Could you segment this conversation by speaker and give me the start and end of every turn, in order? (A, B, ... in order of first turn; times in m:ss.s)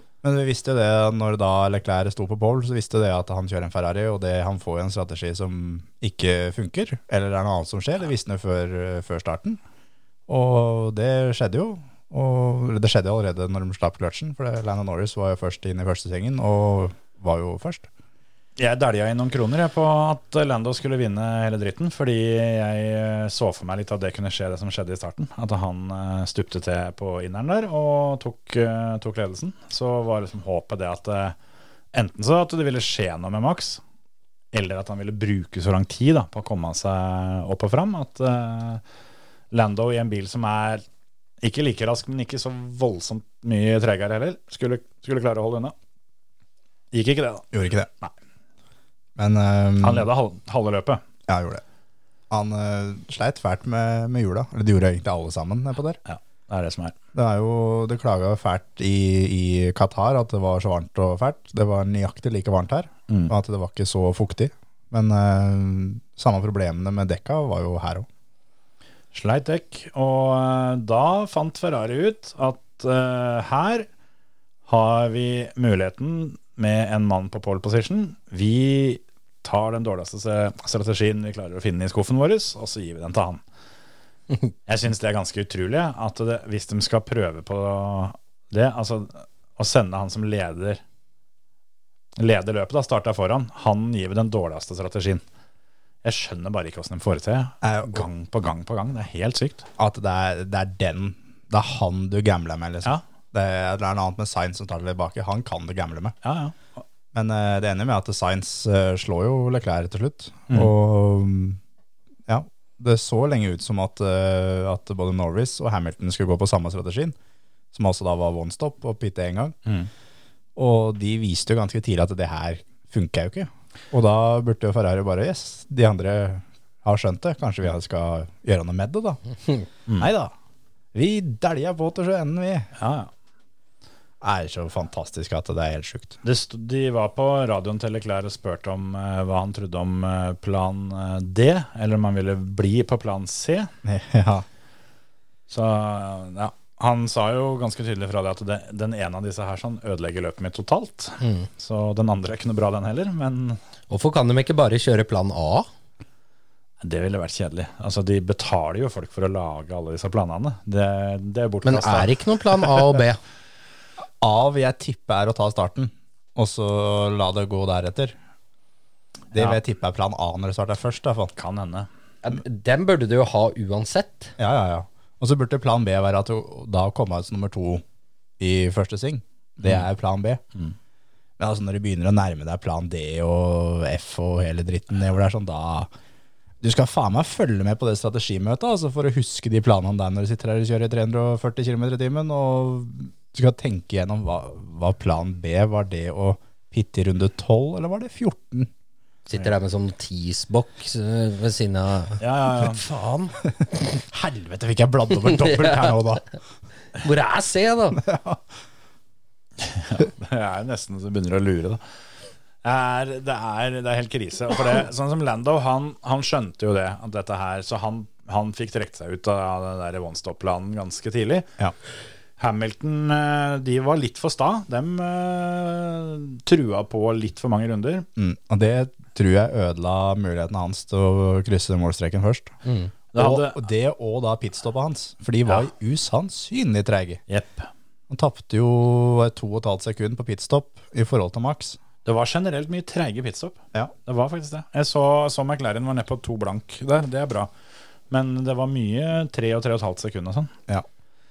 0:00.2-0:09.6 A
0:10.3-0:17.9 A
0:18.6-0:31.4 B
0:31.9-0:33.8 B
0:34.5-0:38.8 B
0:39.5-0:40.8 B
0:41.4-0:45.7 B
0:46.9-0:47.5 B
0:47.5-0:47.9 A
0:49.2-0:50.1 A
0:49.8-0:51.0 B
0:51.3-0:51.6 A
0:52.3-0:56.0 A
0:56.1-0:57.0 B
0:57.1-1:08.1 A
1:09.1-1:13.9 B
1:14.7-1:23.4 B
1:24.7-1:30.8 B
1:32.2-1:35.2 B
1:36.0-1:39.7 B
1:37.6-1:38.1 A
1:39.8-1:46.2 A
1:46.2-1:46.6 B
1:47.1-1:51.6 A
1:52.3-1:57.2 A
1:57.7-1:59.6 A
2:00.6-2:09.2 A
2:10.0-2:10.3 A
2:10.9-2:12.7 A
2:12.8-2:13.1 B
2:14.2-2:16.2 A
2:16.2-2:23.7 B
2:23.8-2:24.4 A
2:25.5-2:33.6 B
2:31.2-2:31.5 C
2:33.9-2:35.7 C
2:36.8-2:42.8 B
2:41.6-2:43.2 C
2:44.2-2:48.2 A
2:49.3-2:51.3 A
2:51.4-2:51.9 B
2:52.2-2:54.3 C
2:54.4-2:57.8 A
2:58.4-3:00.4 A
3:01.4-3:05.9 A
3:06.6-3:18.7 A
3:19.3-3:23.4 C
3:22.2-3:22.8 B
3:24.1-3:26.2 A
3:25.3-3:25.9 C
3:27.0-3:28.0 C
3:28.0-3:28.4 A
3:29.6-3:31.8 B
3:32.6-3:41.5 B
3:42.4-3:48.1 B
3:48.2-3:52.5 A
3:52.6-3:52.9 C
3:53.1-3:53.6 B
3:53.2-3:57.2 A
3:57.3-3:57.7 B
3:58.1-4:01.8 A
4:02.0-4:07.5 B
4:08.1-4:10.5 B